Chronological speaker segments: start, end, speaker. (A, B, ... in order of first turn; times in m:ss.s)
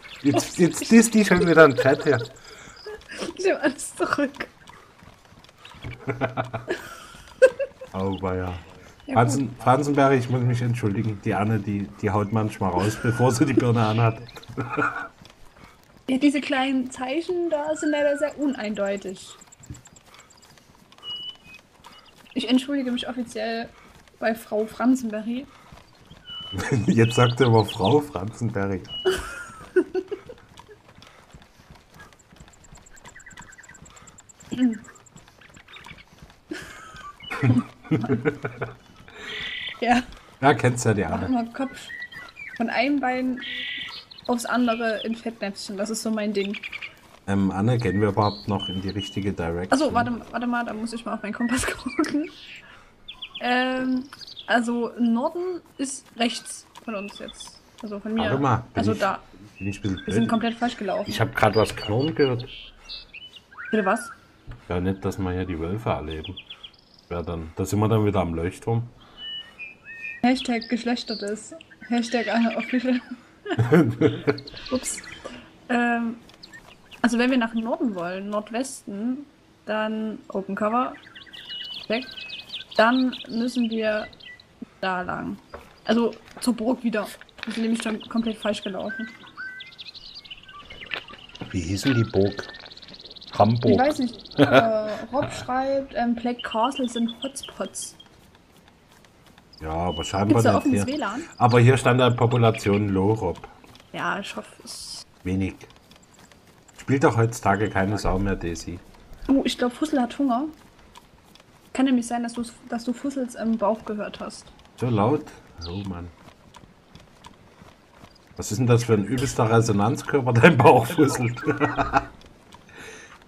0:00.2-0:02.3 A
0:00.3-0:00.9 B
0:01.4-0:02.1 B
0:03.1-0:04.5 B
0:06.1-0:06.6 A
0:07.9-0:08.6 A
0:09.1-0:09.4 B
0:09.1-0:15.0 A
0:16.1-0:19.4 B
0:22.4-0:25.5 B
0:26.5-0:29.0 A
0:29.2-0:30.2 B
0:34.5-0:34.8 B
0:37.4-0:38.7 A
0:37.5-0:38.2 B
0:40.4-0:41.3 A
0:41.1-0:42.0 B
0:42.6-0:43.5 B
0:44.3-0:46.6 B
0:47.3-0:50.1 A
0:49.7-0:52.3 B
0:53.4-0:59.2 B
0:58.2-1:00.4 A
1:00.1-1:01.2 B
1:01.1-1:02.5 A
1:03.7-1:04.1 B
1:04.7-1:06.4 A
1:07.1-1:08.9 A
1:10.2-1:13.6 B
1:13.6-1:14.4 A
1:14.7-1:15.1 B
1:15.7-1:16.2 B
1:17.0-1:21.0 B
1:22.8-1:24.1 B
1:24.8-1:29.1 B
1:31.5-1:32.5 A
1:33.3-1:34.7 A
1:33.7-1:38.0 B
1:39.6-1:43.5 A
1:40.3-1:41.3 B
1:43.9-1:45.1 B
1:45.2-1:45.7 A
1:46.8-1:48.8 A
1:49.3-1:50.6 B
1:51.7-1:54.5 B
1:54.8-1:56.1 A
1:58.4-2:02.1 A